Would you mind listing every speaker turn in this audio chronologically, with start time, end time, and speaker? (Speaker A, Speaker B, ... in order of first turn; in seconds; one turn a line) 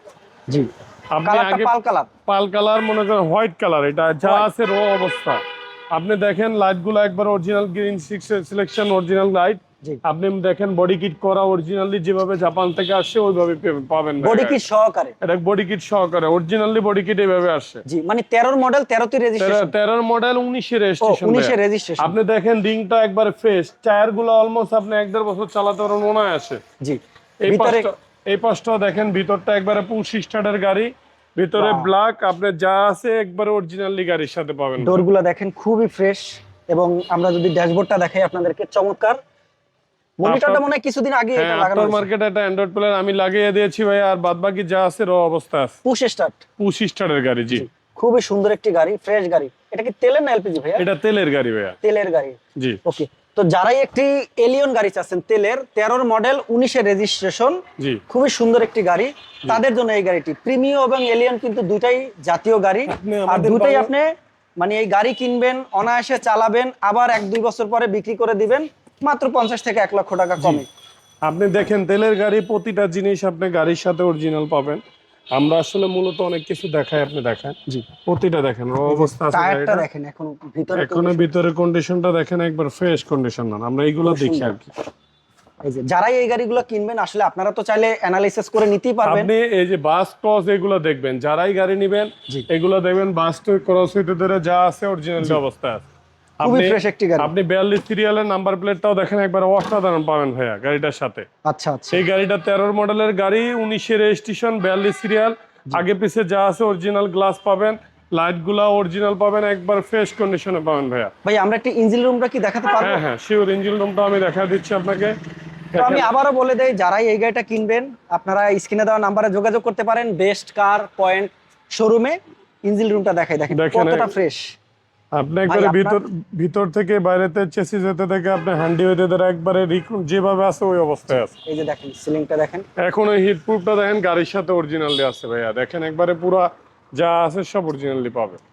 Speaker A: 1.1-1.7
Speaker B: 1.2-2.1
Speaker A: 2.2-14.6
Speaker B: 4.2-4.5
Speaker B: 14.2-15.1
Speaker A: 15.2-17.8
Speaker B: 17.9-19.7
Speaker A: 19.4-26.6
Speaker B: 21.0-22.1
Speaker B: 26.8-27.9
Speaker A: 27.4-35.0
Speaker B: 31.6-31.9
Speaker B: 34.8-39.2
Speaker B: 40.2-42.1
Speaker A: 40.2-40.6
Speaker A: 41.3-45.8
Speaker B: 45.8-46.4
Speaker A: 46.6-47.7
Speaker B: 47.5-50.9
Speaker A: 50.8-51.8
Speaker B: 51.8-70.7
Speaker A: 57.8-58.0
Speaker A: 62.9-63.9
Speaker A: 70.4-70.6
Speaker A: 71.2-74.8
Speaker A: 75.3-79.8
Speaker B: 78.9-81.3
Speaker A: 80.7-84.7
Speaker B: 84.0-84.6
Speaker B: 85.6-89.3
Speaker A: 89.0-95.8
Speaker A: 96.4-101.2
Speaker B: 96.4-97.3
Speaker B: 101.4-102.0
Speaker A: 101.9-111.1
Speaker B: 111.2-113.0
Speaker A: 112.8-115.2
Speaker A: 115.7-116.1
Speaker B: 115.7-124.5
Speaker A: 123.5-124.1
Speaker A: 125.1-131.3
Speaker B: 125.5-126.0
Speaker B: 131.4-132.6
Speaker A: 132.8-138.4